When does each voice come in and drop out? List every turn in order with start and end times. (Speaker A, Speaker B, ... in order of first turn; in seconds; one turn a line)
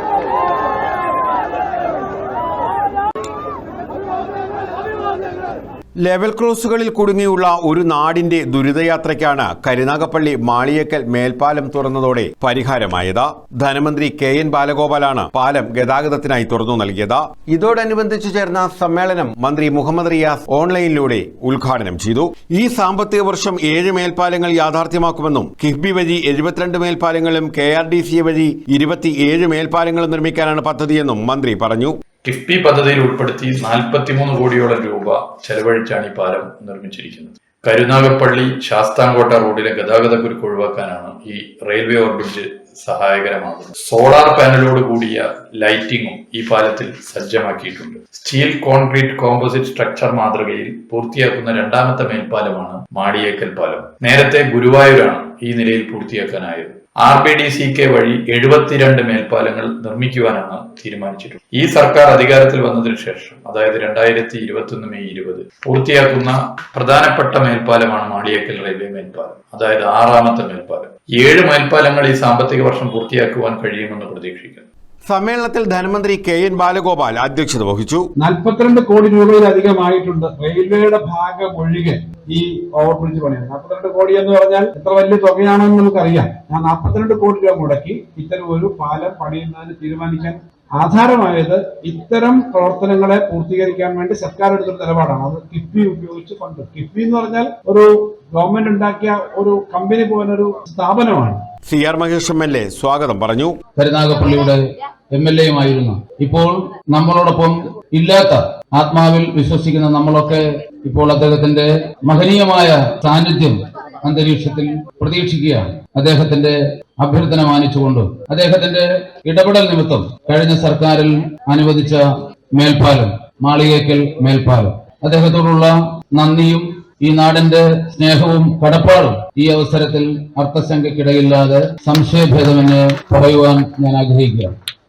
Speaker A: 6.0-32.0
Speaker B: 32.2-74.7
Speaker A: 75.1-78.1
Speaker C: 78.2-101.4
Speaker A: 101.6-103.6
Speaker D: 103.8-104.6
Speaker D: 105.1-122.0
Speaker D: 122.5-134.5